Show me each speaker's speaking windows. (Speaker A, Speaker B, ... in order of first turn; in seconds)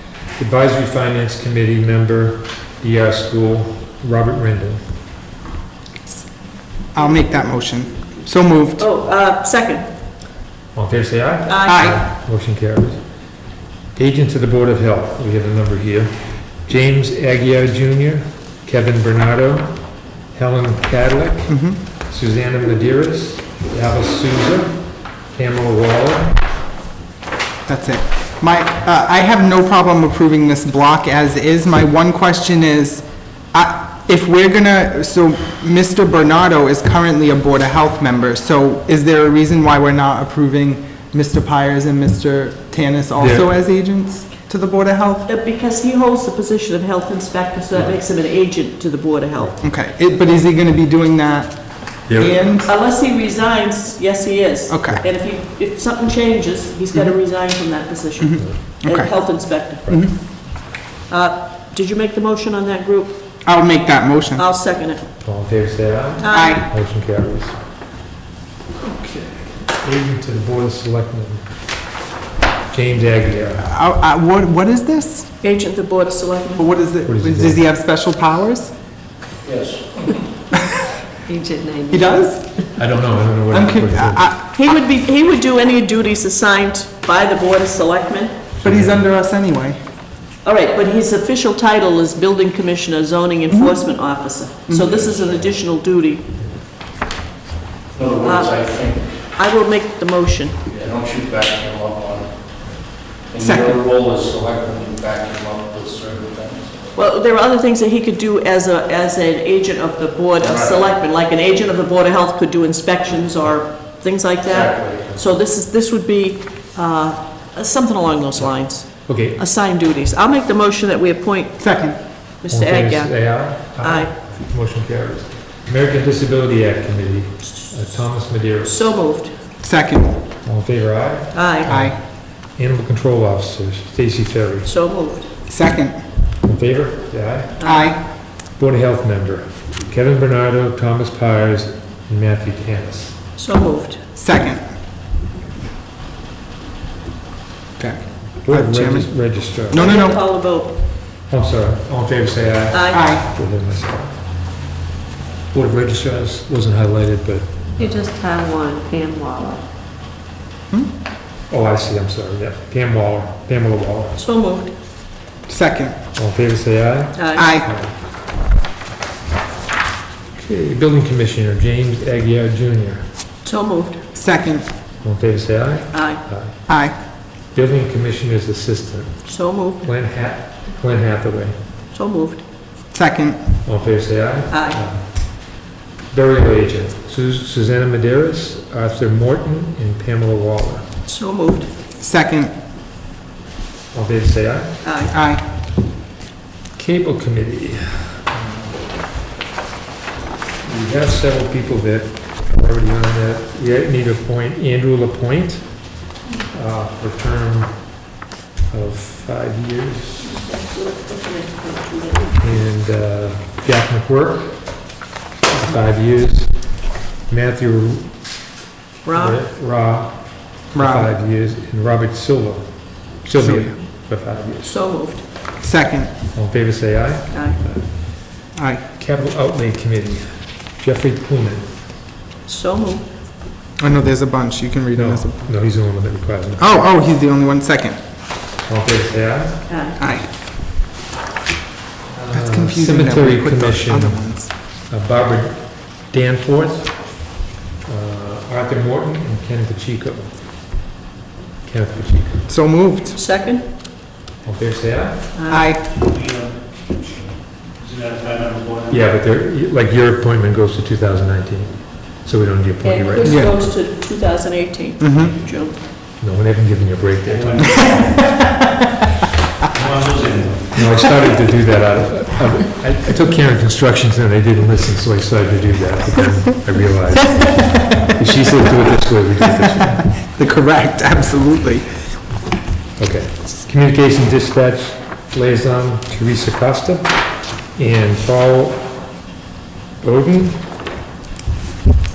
Speaker A: 0.4-4.8, 10.7-13.0, 13.9-19.8, 20.3-26.4, 43.1-43.5, 47.7-48.0, 52.1-52.4, 65.2-67.6, 68.8-71.4, 72.7-73.7, 77.0-77.6, 82.8-84.3, 88.6-89.0, 119.0-119.4, 122.5-128.9, 130.4-134.7, 136.4-137.6, 138.6-143.2, 148.4-149.9, 151.3-154.2, 155.5-157.8, 161.5-164.2, 166.1-167.9, 170.4-173.1, 175.0-176.6, 177.5-181.5, 183.6-190.9, 193.9-194.8, 196.8-198.9, 200.6-207.9, 208.7-210.3, 212.4-214.9, 215.5-218.3, 219.1-224.8, 226.3-231.8, 234.9-236.7, 238.6-239.7, 242.1-244.2, 244.8-247.3, 247.8-250.4, 251.6-252.5, 254.4-255.4, 258.9-263.7, 266.2-267.9, 270.7-280.1, 283.0-287.2, 287.7-288.9, 290.0-290.7
Speaker B: 6.9-8.9, 11.7-12.0, 21.5-21.8, 27.6-45.3, 49.6-52.7, 54.7-55.0, 58.2-59.1, 59.9-60.1, 63.5-64.4, 66.3-66.7, 73.6-75.3, 76.6-78.7, 81.9-82.5, 83.5-84.5, 88.6-89.8, 94.7-95.0, 103.4-103.8, 121.6-122.0, 129.6-130.2, 131.7-131.9, 135.5-136.0, 137.6-138.0, 144.2-144.6, 147.8-149.1, 149.6-150.2, 152.9-153.2, 165.5-166.0, 167.3-167.7, 174.1-174.7, 176.7-176.9, 182.9-183.5, 192.0-192.5, 195.1-195.4, 220.7-221.1, 223.4-223.7, 225.6-226.1, 228.5-228.8, 233.8-235.4, 236.6-238.0, 240.0-240.3, 242.3-244.5, 252.5-253.2, 255.5-255.8, 263.2-263.6, 265.0-265.3, 279.6-281.8
Speaker C: 8.8-9.9, 11.5-11.9, 45.3-49.5, 52.6-60.1, 61.1-63.2, 64.3-65.1, 66.2-66.6, 75.4-76.7, 84.5-88.5, 90.4-96.3, 98.2-98.6, 99.2-100.6, 106.9-121.7, 122.4-124.1, 128.7-129.3, 131.3-131.7, 134.6-135.3, 137.6-137.9, 143.4-144.0, 149.7-150.7, 152.7-153.0, 164.2-164.7, 167.1-167.5, 173.4-174.0, 175.9-176.2, 179.3-179.8, 181.9-182.4, 184.5-184.8, 191.1-191.7, 194.8-195.1, 210.2-212.3, 219.0-219.4, 224.6-225.2, 227.3-227.6, 232.4-233.1, 239.7-240.0, 253.1-253.7, 255.3-255.7, 262.8-265.8
Speaker D: 79.4-80.3, 97.9-99.3, 100.7-106.9, 110.4-110.9, 114.5-115.2, 255.9-256.5, 257.8-259.1, 267.2-268.4, 269.7-271.0
Speaker E: 81.2-82.2, 157.8-159.6